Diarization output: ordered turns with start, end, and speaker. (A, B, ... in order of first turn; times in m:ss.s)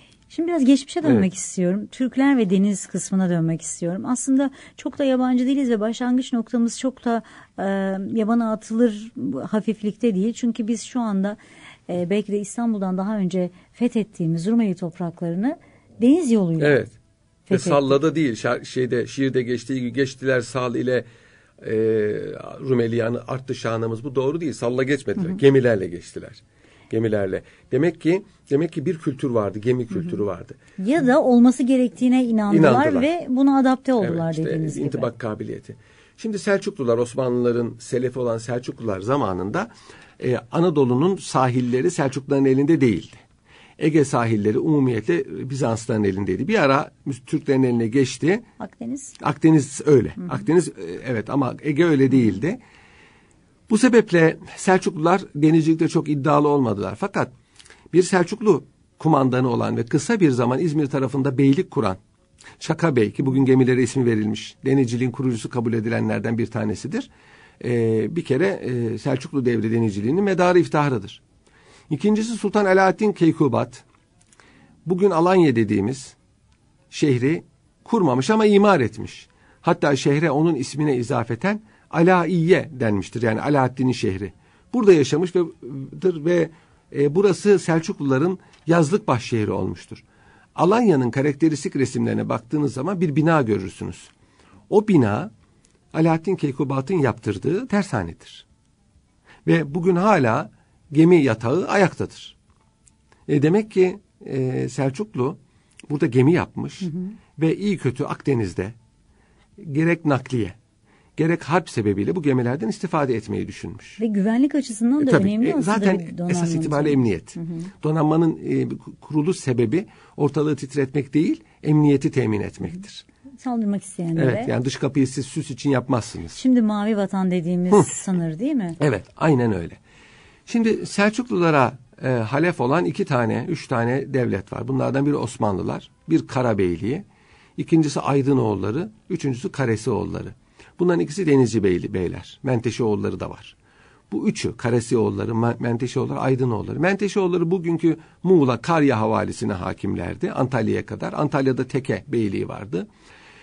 0:00.3-0:16.8 A
0:16.6-0:17.0 B
0:17.5-0:17.8 A
0:17.5-0:21.0 B
0:21.6-0:30.6 B
0:30.8-0:35.1 A
0:32.5-0:33.1 B
0:34.0-0:43.2 B
0:43.8-0:48.4 B
0:48.6-0:49.2 A
0:49.2-0:52.6 B
0:53.7-0:57.3 B
0:57.9-1:02.0 B
1:02.6-1:07.1 B
1:07.6-1:11.2 B
1:11.9-1:13.8 B
1:14.8-1:16.2 B
1:16.9-1:30.0 B
1:30.6-1:34.1 B
1:34.7-1:35.3 B
1:35.9-1:38.5 B
1:39.4-1:42.4 B
1:43.3-1:48.8 B
1:49.6-1:50.6 B
1:51.2-1:54.0 B
1:54.0-1:57.7 A
1:55.0-2:03.0 B
2:03.4-2:04.5 A
2:04.2-2:06.4 B
2:06.4-2:08.8 A
2:08.8-2:09.8 B
2:10.5-2:17.0 B
2:17.6-2:23.6 B
2:24.1-2:32.9 B